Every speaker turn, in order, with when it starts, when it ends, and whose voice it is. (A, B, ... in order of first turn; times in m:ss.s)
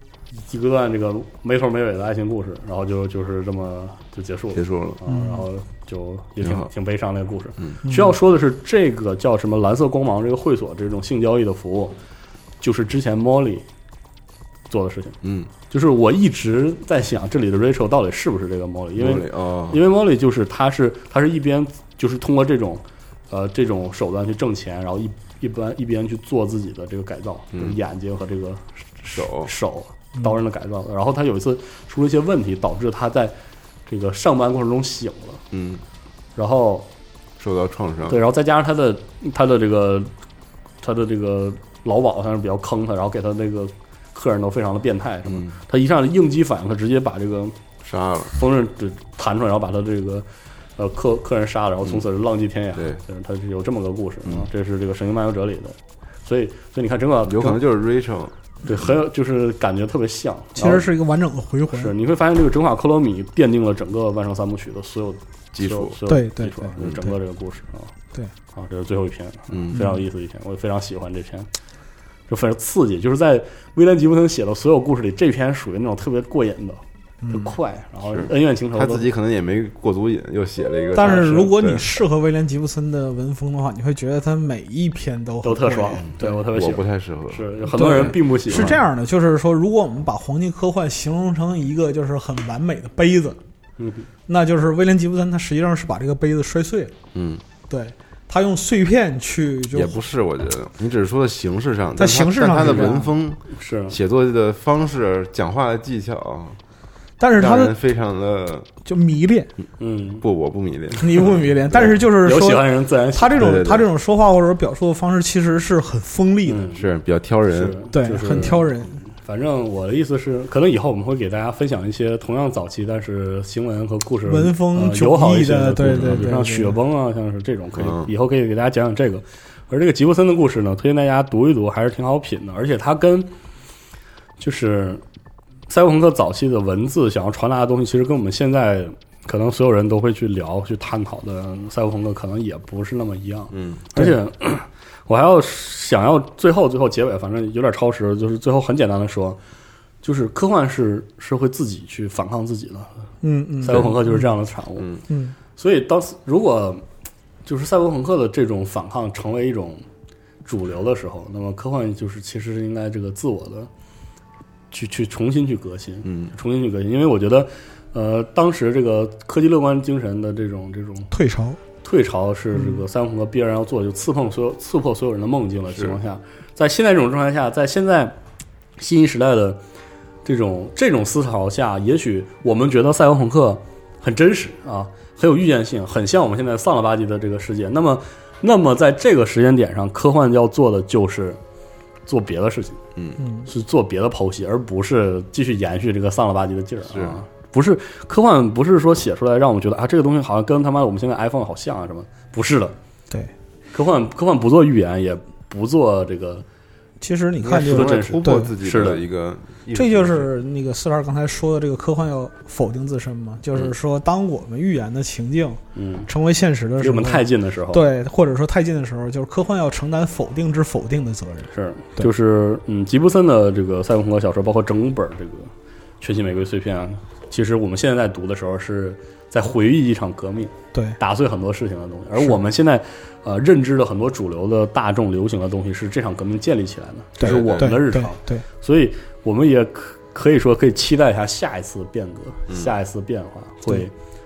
0:00.4-0:12.0 A
0:04.6-0:05.0 B
0:05.1-0:05.4 C
0:06.4-0:06.7 B
0:12.6-0:13.7 A
0:14.7-0:33.4 A
0:15.2-0:15.5 B
0:19.0-0:19.8 B
0:29.1-0:29.5 B
0:33.9-0:35.4 A
0:35.5-0:35.8 B
0:36.4-0:36.9 A
0:37.4-0:38.2 B
0:38.1-0:40.1 A
0:40.8-0:47.6 A
0:45.3-0:45.6 B
0:47.8-0:48.3 B
0:48.3-0:57.6 A
0:57.2-0:58.8 B
0:58.6-1:00.9 A
1:00.6-1:01.9 C
1:01.7-1:07.9 A
1:05.5-1:06.0 B
1:06.1-1:07.1 C
1:08.5-1:11.5 A
1:09.5-1:09.8 B
1:09.7-1:10.0 C
1:12.3-1:19.1 A
1:17.2-1:17.5 C
1:18.1-1:21.9 B
1:21.0-1:26.3 C
1:21.0-1:21.4 A
1:25.4-1:28.8 A
1:26.1-1:27.5 B
1:27.7-1:33.4 C
1:28.5-1:28.8 B
1:33.8-1:34.1 A
1:34.3-1:36.9 C
1:37.1-1:37.4 B
1:37.7-1:40.0 C
1:39.7-1:46.6 B
1:42.0-1:43.1 C
1:42.6-1:43.0 A
1:43.5-1:44.0 A
1:47.2-1:47.8 C
1:47.4-1:48.7 B
1:48.8-1:49.5 C
1:49.8-1:50.2 A
1:50.2-1:51.9 B
1:51.0-1:56.7 C
1:51.8-1:53.6 A
1:53.4-1:53.9 B
1:56.5-1:56.8 A
1:56.8-1:57.8 B
1:57.5-2:13.3 A
1:57.9-1:59.0 C
2:04.3-2:06.8 C
2:05.8-2:06.3 B
2:07.8-2:08.1 B
2:14.4-2:15.0 A
2:15.7-2:29.4 A
2:23.5-2:23.8 B
2:30.0-2:33.0 A
2:33.2-2:34.2 C
2:33.6-2:34.9 A
2:35.1-2:35.4 C
2:35.6-2:36.8 A
2:37.5-2:39.8 A
2:40.4-2:43.7 A
2:44.7-2:51.1 A
2:46.0-2:46.4 B
2:51.1-2:51.6 C
2:51.8-2:58.2 A
2:58.8-2:59.6 A
3:00.2-3:11.4 A
3:12.1-3:12.8 A
3:13.0-3:13.2 B
3:13.2-3:13.5 C
3:13.5-3:22.8 A
3:16.9-3:17.2 B
3:23.7-3:26.4 A
3:27.0-3:28.5 C
3:27.4-3:30.3 B
3:27.5-3:29.0 A
3:29.8-3:42.1 C
3:35.8-3:36.1 A
3:36.8-3:37.8 A
3:41.5-4:03.9 A
3:57.2-3:58.4 C
3:57.2-3:57.7 B